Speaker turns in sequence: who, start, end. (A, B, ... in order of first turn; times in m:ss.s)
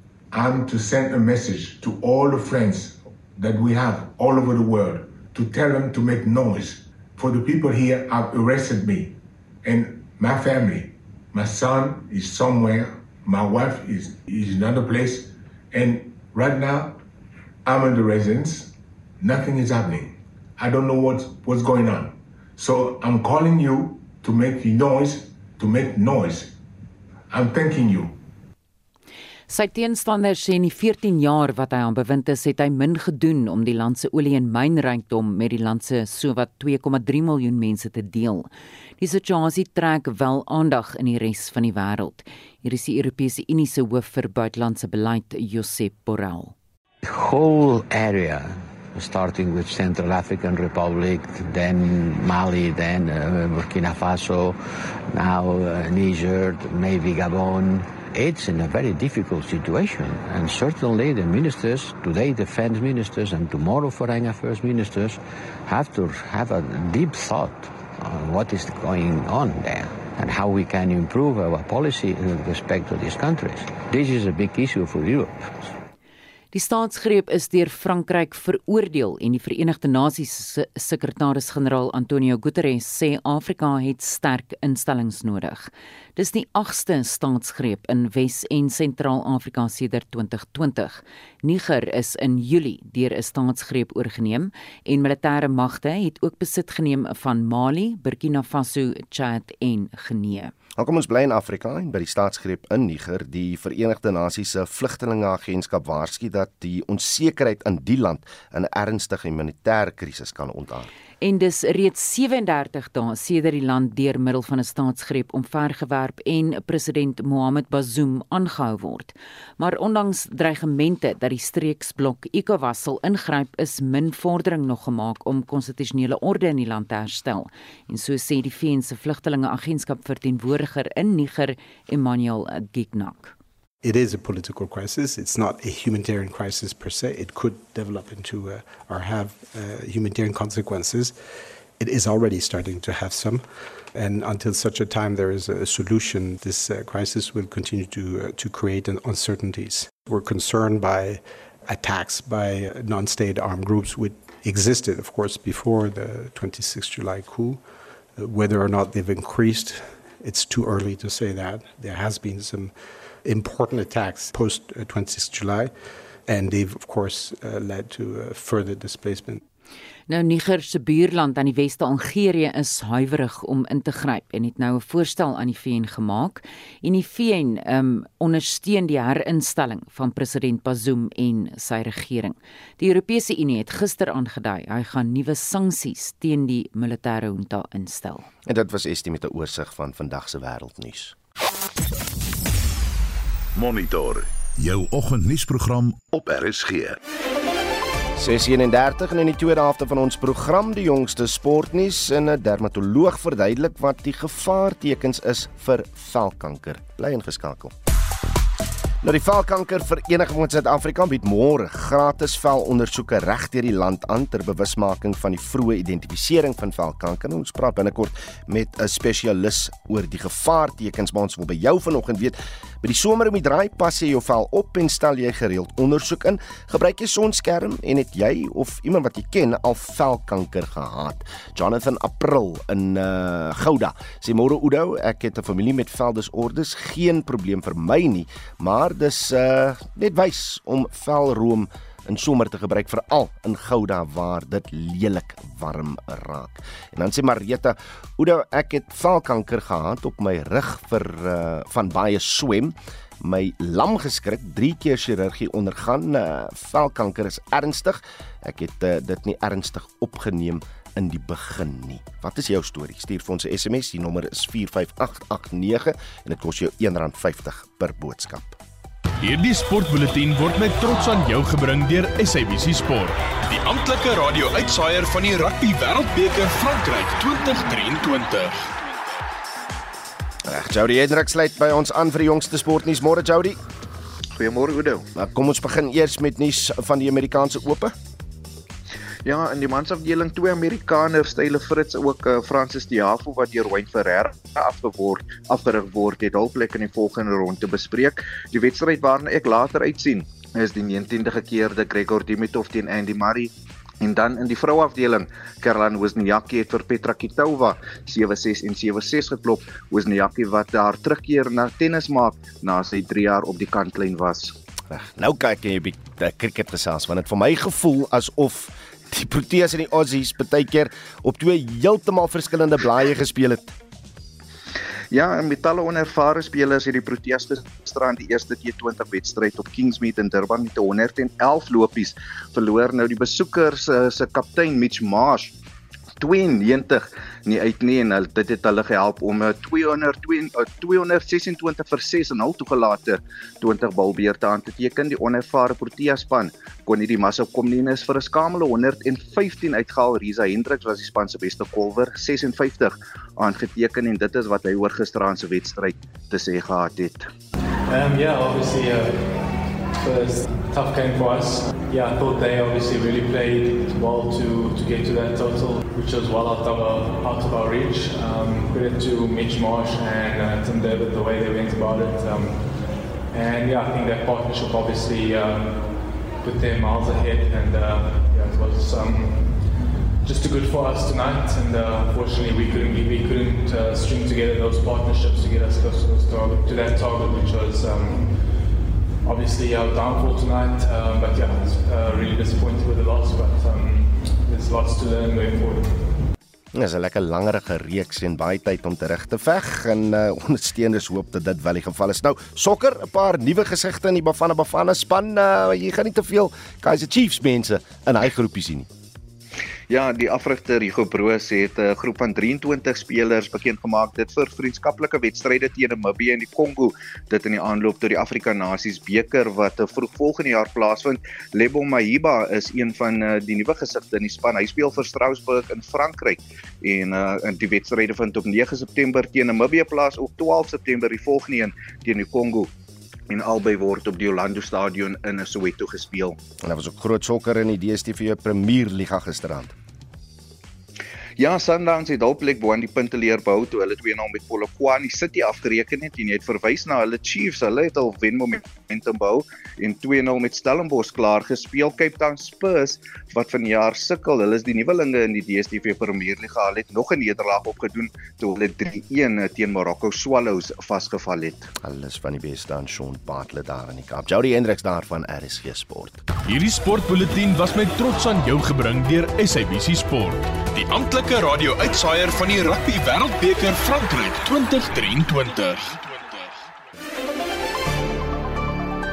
0:00.3-0:17.0 A
0:17.6-0:26.5 A
0:27.3-0:28.2 A
0:29.5-0:46.5 B
0:47.1-0:54.6 C
0:55.2-1:15.4 C
1:16.5-1:40.5 B
1:40.8-1:50.9 D
1:51.2-2:13.3 B
2:13.8-2:21.2 E
2:21.8-2:37.6 E
2:38.2-2:45.7 E
2:46.3-2:49.4 E
2:50.1-3:08.3 B
3:08.4-3:11.1 D
3:13.5-3:17.0 F
3:18.2-3:27.7 D
3:29.0-4:28.6 D
4:29.2-4:38.6 G
4:40.4-4:43.6 D
4:45.1-4:47.9 D
4:49.8-4:50.5 H
4:56.2-4:56.6 H
4:58.9-4:59.3 H
5:04.2-5:05.7 H
5:06.5-5:07.7 H
5:14.9-5:23.7 D
5:25.7-5:32.0 H
5:32.8-5:35.4 H
5:36.2-5:36.8 H
5:37.6-5:39.2 H
5:39.8-5:40.2 H
5:40.8-5:43.1 H
5:43.8-5:46.4 H
5:46.9-5:52.8 H
5:53.5-5:55.8 H
5:56.4-5:57.2 H
5:57.9-5:59.4 I
6:00.0-6:12.6 I
6:13.3-6:19.6 I
6:20.2-6:28.4 I
6:29.2-6:36.1 I
6:36.7-6:48.9 D
6:49.9-7:06.4 H
7:06.9-7:12.7 H
7:13.3-7:16.3 H
7:16.6-7:19.7 D
7:21.4-7:41.7 H
7:41.8-7:46.2 D
7:46.4-7:56.4 G